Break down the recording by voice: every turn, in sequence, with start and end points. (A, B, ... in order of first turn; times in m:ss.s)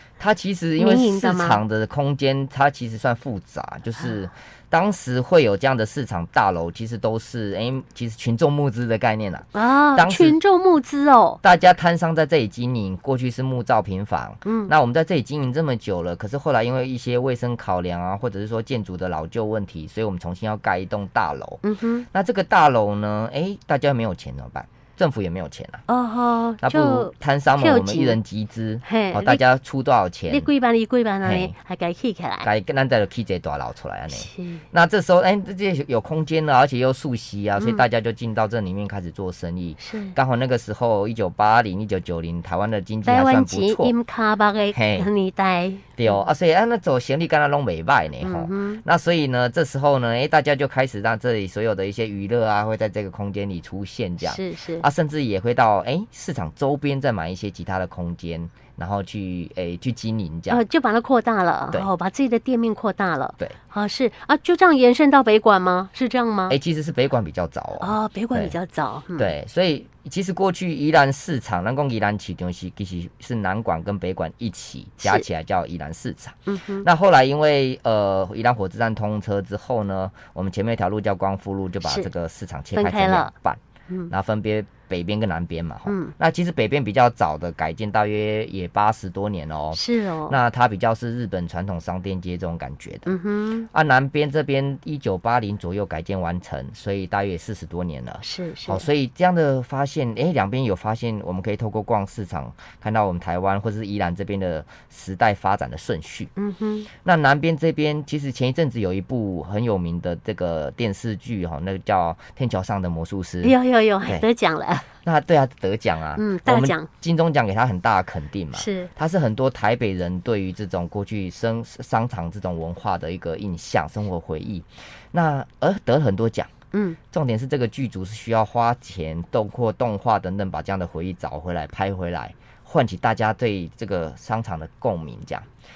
0:00.2-0:10.4 A
0:00.8-0:01.6 B
0:09.5-0:11.4 B
0:11.4-0:25.8 A
0:14.4-0:14.7 B
0:21.6-0:22.1 B
0:25.9-0:28.2 B
0:26.6-0:30.5 A
0:28.8-0:29.4 B
0:30.3-0:32.5 B
0:31.2-0:31.5 A
0:32.4-0:43.9 A
0:34.1-0:34.6 B
0:37.6-0:37.8 B
0:39.8-0:40.2 B
0:43.0-0:46.2 B
0:44.7-0:45.1 A
0:46.0-1:00.6 A
0:48.2-0:48.8 B
0:54.2-0:54.9 B
1:00.5-1:06.6 B
1:06.5-1:08.6 A
1:07.8-1:09.3 B
1:09.2-1:33.2 A
1:15.0-1:15.3 B
1:16.5-1:16.9 B
1:21.8-1:22.1 B
1:22.7-1:23.3 B
1:25.9-1:26.1 B
1:29.7-1:30.4 B
1:33.1-1:33.7 B
1:33.7-1:46.3 A
1:38.2-1:38.9 B
1:46.4-1:46.9 B
1:47.0-1:54.3 A
1:53.4-1:54.9 B
1:55.0-2:06.5 A
1:56.2-1:56.9 B
1:58.5-1:58.9 B
2:06.7-2:07.0 B
2:07.1-2:15.5 A